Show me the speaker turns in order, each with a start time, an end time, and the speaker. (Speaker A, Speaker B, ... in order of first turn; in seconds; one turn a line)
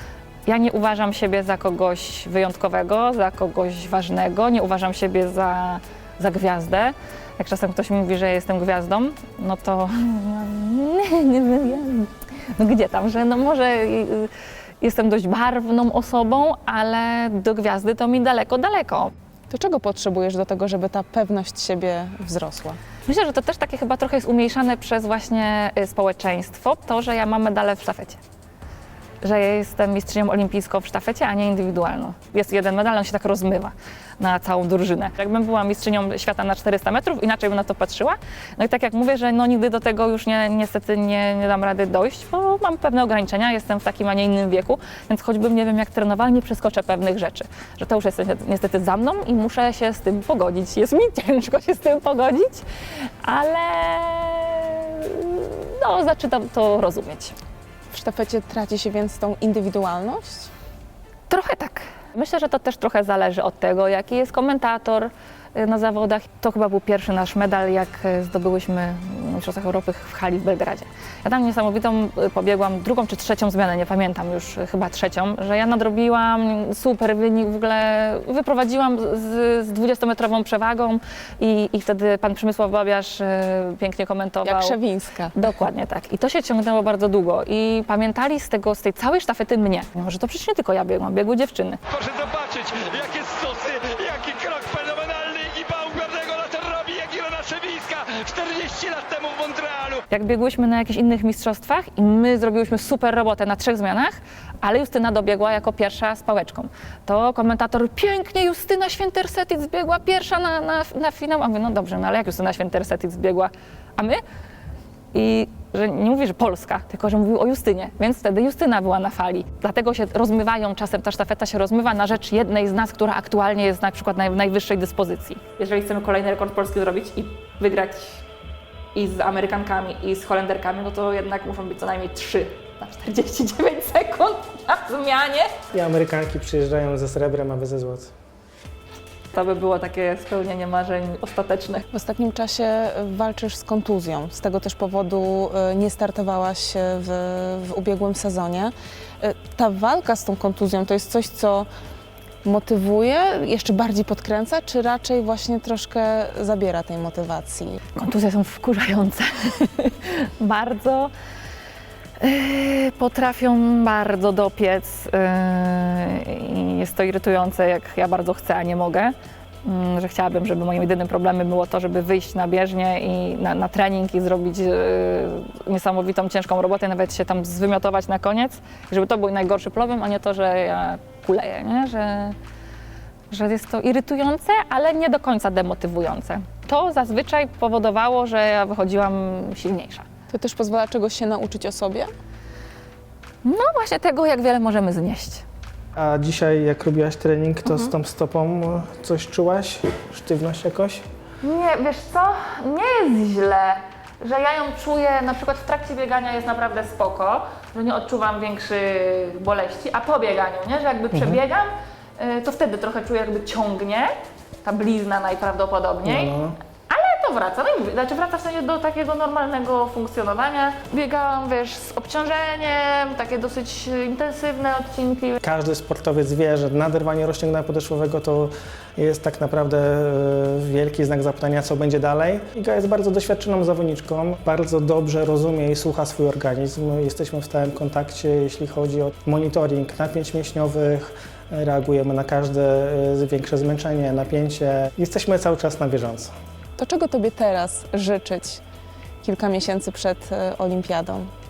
Speaker A: 0.5-14.3
Speaker A: 14.8-19.1
Speaker B: 19.5-22.8
Speaker A: 23.1-28.2
Speaker A: 29.2-52.6
Speaker A: 53.2-57.3
Speaker B: 57.9-60.5
Speaker A: 61.3-84.8
Speaker B: 84.4-85.4
Speaker A: 85.3-91.8
Speaker C: 91.9-100.0
Speaker A: 100.1-114.2
Speaker A: 115.1-128.2
Speaker A: 128.9-135.5
Speaker D: 135.7-138.1
Speaker A: 139.3-141.8
Speaker B: 141.9-151.7
Speaker B: 152.4-157.8
Speaker A: 157.9-161.1
Speaker A: 162.2-169.1
Speaker A: 169.6-182.3
Speaker A: 183.3-190.0
Speaker B: 190.3-192.1
Speaker A: 193.4-195.4
Speaker D: 195.9-201.0
Speaker A: 197.6-197.9
Speaker A: 201.4-216.3
Speaker D: 211.1-211.4
Speaker D: 216.0-216.6
Speaker A: 216.9-225.4
Speaker D: 225.4-246.3
Speaker B: 246.8-248.6
Speaker B: 249.2-251.3